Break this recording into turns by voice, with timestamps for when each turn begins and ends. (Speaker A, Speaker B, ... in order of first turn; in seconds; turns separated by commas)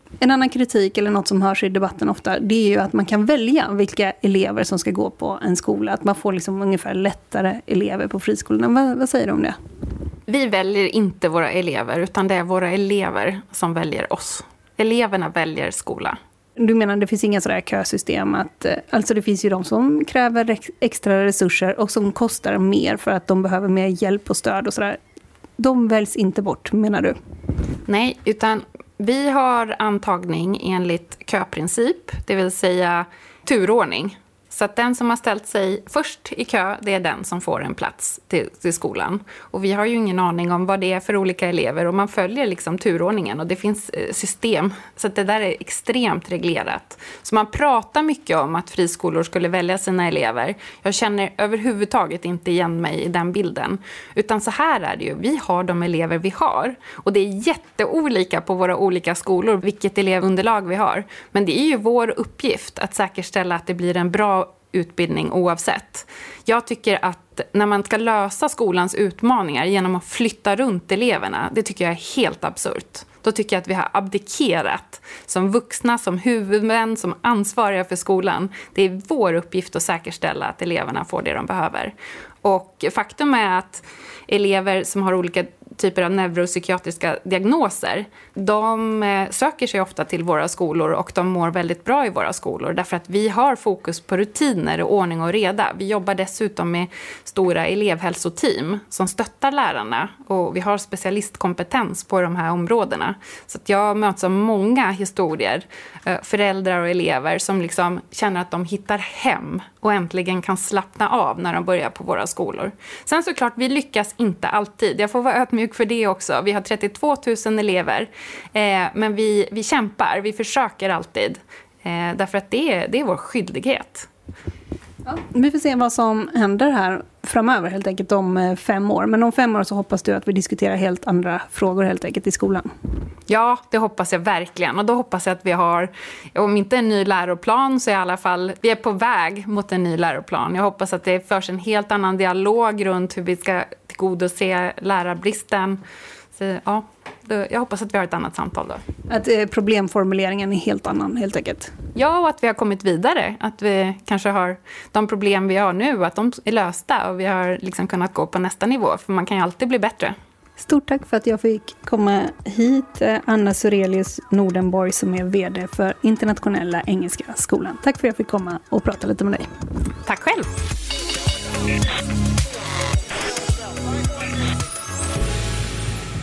Speaker A: 0.2-9.6, Speaker B: 10.3-16.2, Speaker A: 16.6-25.0, Speaker A: 25.6-27.2, Speaker B: 27.9-124.1, Speaker A: 125.0-132.7, Speaker B: 133.3-145.8, Speaker B: 146.3-148.8, Speaker A: 149.1-151.7, Speaker B: 151.9-160.2, Speaker A: 160.6-169.5, Speaker B: 170.1-170.5